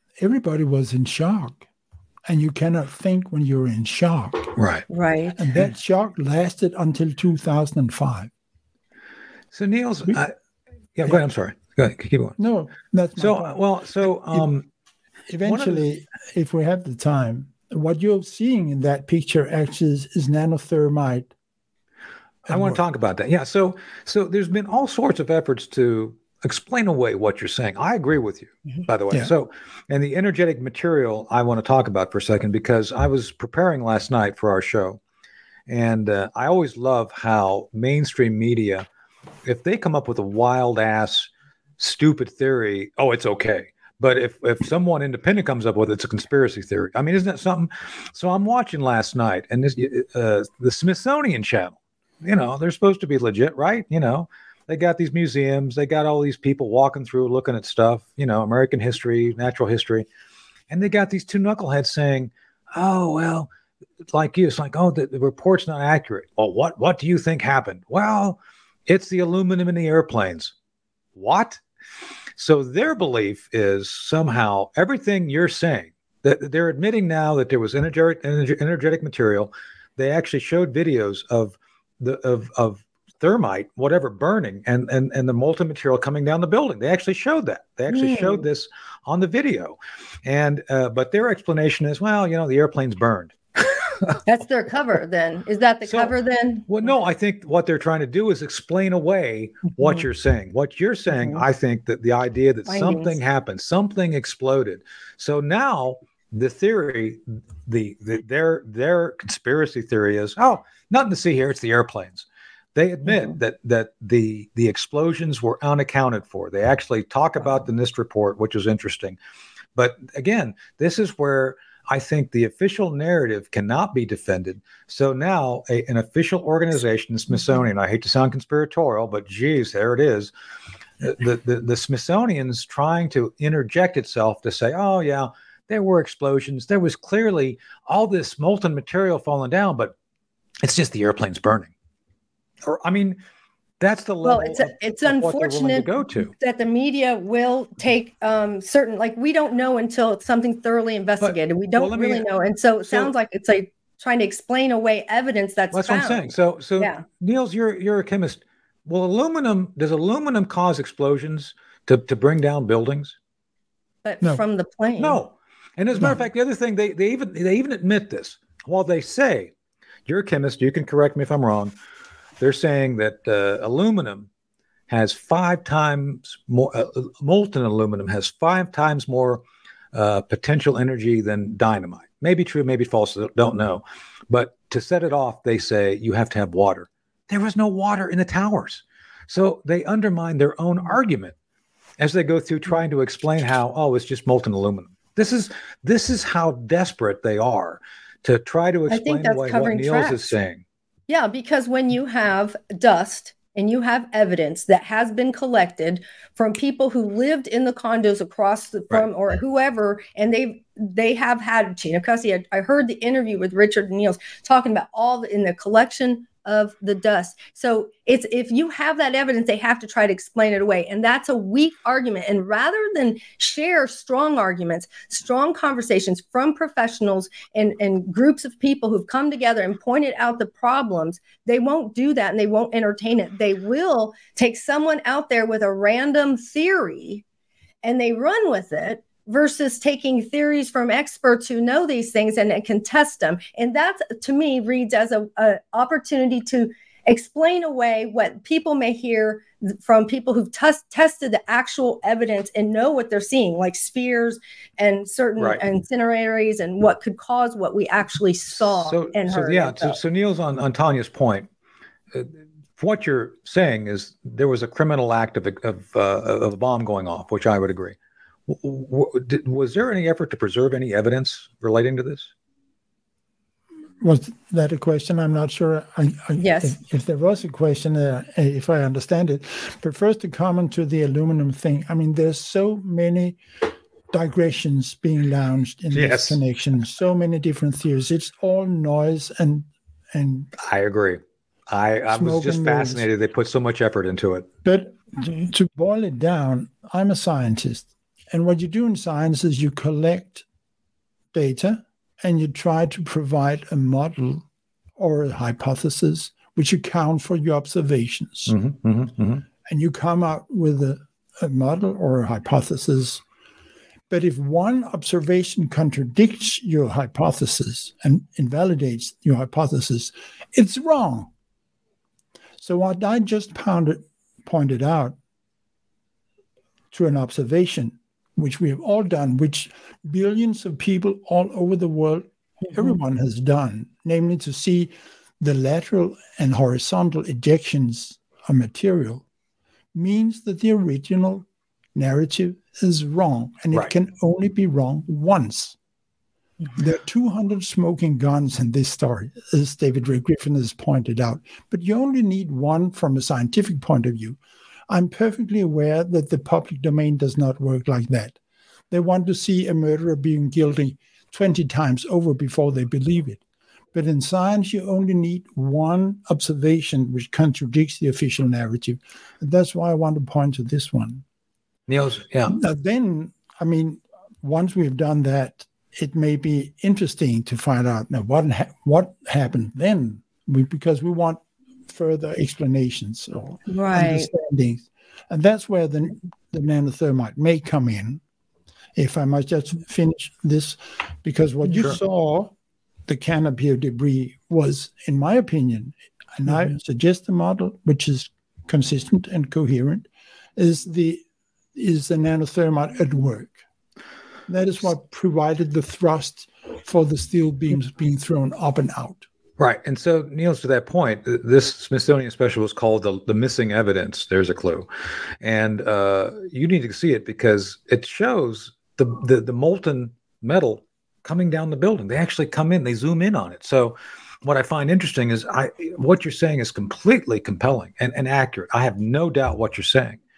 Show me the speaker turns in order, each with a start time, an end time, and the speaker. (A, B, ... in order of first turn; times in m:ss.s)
0:00.2-0:01.6 A
0:02.3-0:04.5 A
0:04.6-0:04.8 B
0:04.9-0:05.4 C
0:05.4-0:08.3 A
0:09.5-0:10.3 B
0:11.0-0:12.4 B
0:12.4-0:14.5 A
0:13.2-0:14.6 B
0:15.3-0:21.3 A
0:15.4-0:15.9 B
0:22.4-0:22.8 A
0:22.5-0:35.0 B
0:35.7-0:38.8 B
0:39.4-1:00.1 B
1:00.7-1:03.5 B
1:04.1-1:10.5 B
1:11.2-1:11.6 B
1:12.4-1:33.3 B
1:27.9-1:28.4 C
1:34.2-1:36.9 C
1:35.8-1:36.1 B
1:36.7-1:59.2 B
1:42.7-1:43.2 C
1:59.8-2:10.3 B
2:11.0-2:19.9 B
2:20.6-2:21.7 B
2:22.6-2:23.2 B
2:23.8-2:26.3 B
2:24.2-2:36.2 C
2:31.2-2:32.2 B
2:32.8-2:33.1 B
2:35.7-2:43.1 B
2:44.0-2:45.2 C
2:45.0-2:49.5 B
2:50.0-2:51.7 B
2:52.4-2:54.3 B
2:54.9-2:59.4 B
2:59.9-3:11.3 B
3:12.0-3:20.6 B
3:18.9-3:20.4 C
3:21.1-3:57.2 C
3:57.8-4:20.0 C
4:18.6-4:21.5 B
4:22.1-4:28.0 B
4:28.5-4:32.3 B
4:34.0-4:43.4 A
4:36.4-4:36.8 C
4:44.1-4:50.5 A
4:45.9-4:46.4 B
4:50.6-4:54.5 B
4:52.1-4:53.0 A
4:54.6-5:00.4 A
4:55.2-4:55.5 C
5:01.3-5:04.4 A
5:05.0-5:08.5 A
5:08.5-5:09.4 B
5:09.6-5:13.2 A
5:14.1-5:21.3 A
5:22.6-5:25.2 A
5:26.9-5:39.2 A
5:39.9-5:45.8 A
5:46.8-5:58.4 A
5:58.9-6:03.4 A
6:03.9-6:11.2 A
6:11.9-6:12.5 B
6:12.4-6:28.2 A
6:23.7-6:24.3 C
6:29.0-6:32.5 A
6:33.1-6:41.2 A
6:41.7-6:43.6 A
6:44.5-6:49.3 A
6:49.6-6:54.9 B
6:55.4-7:10.2 B